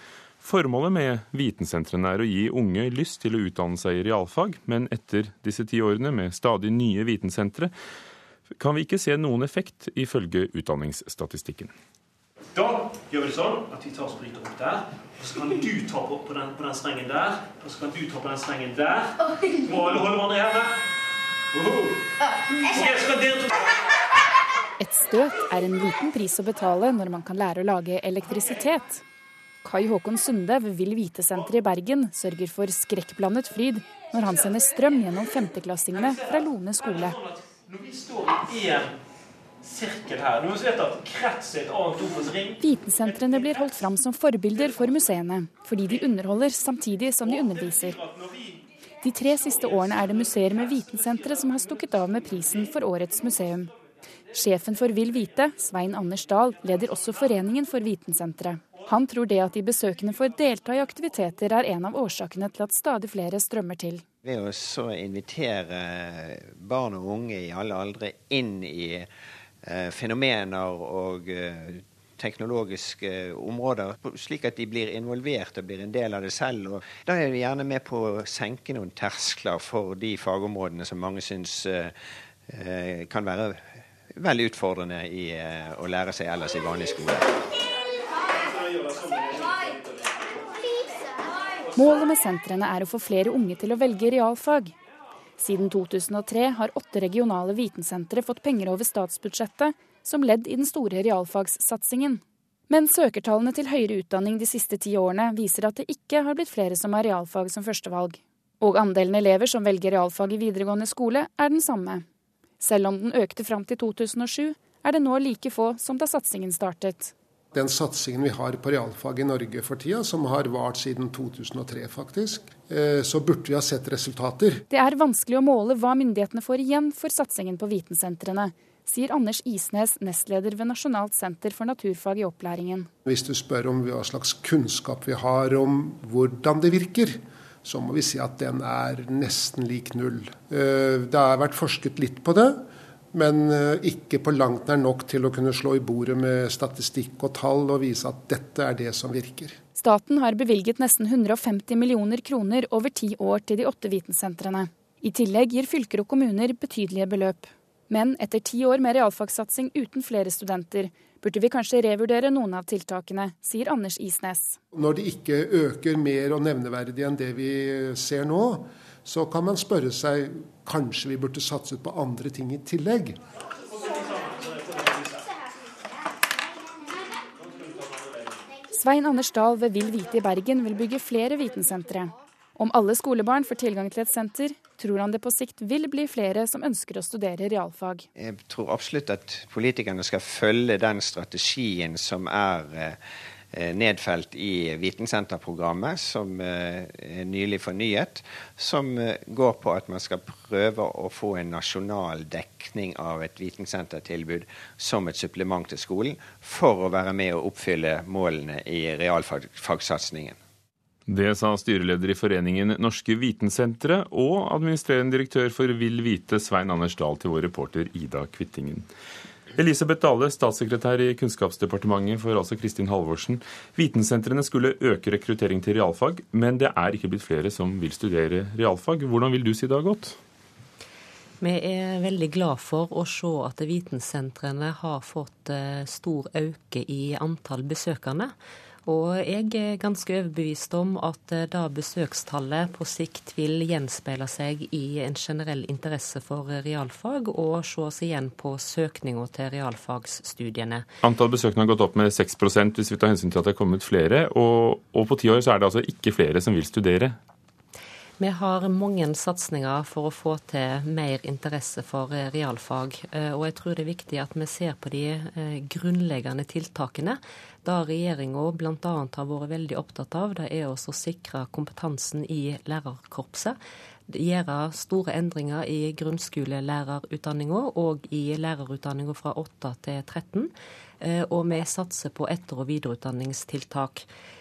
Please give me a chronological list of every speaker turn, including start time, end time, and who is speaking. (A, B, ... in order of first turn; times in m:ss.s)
0:00.4-0:07.7 A
0:08.6-0:11.7 A
0:12.5-0:20.7 B
0:21.6-0:21.9 B
0:22.7-0:23.5 B
0:24.8-0:29.0 C
0:29.6-0:37.2 C
0:37.9-0:38.9 B
0:39.6-0:42.5 B
0:42.6-0:48.0 C
0:49.0-0:53.7 C
0:54.3-1:04.0 C
1:04.2-1:09.1 D
1:09.6-1:21.9 D
1:22.5-1:27.4 D
1:31.7-1:34.7 C
1:35.4-1:52.0 C
1:52.6-1:57.1 C
1:57.5-2:04.6 E
2:04.7-2:12.9 C
2:13.0-2:29.6 E
2:29.8-2:44.6 C
2:44.7-2:53.2 E
2:58.7-3:08.0 C
3:08.2-3:13.0 D
3:13.5-3:30.4 D
3:31.1-3:38.8 A
3:39.5-3:50.2 A
3:51.4-3:58.3 F
3:58.8-4:10.8 F
4:11.0-4:17.2 A
4:18.2-4:33.6 F
4:34.1-4:44.0 F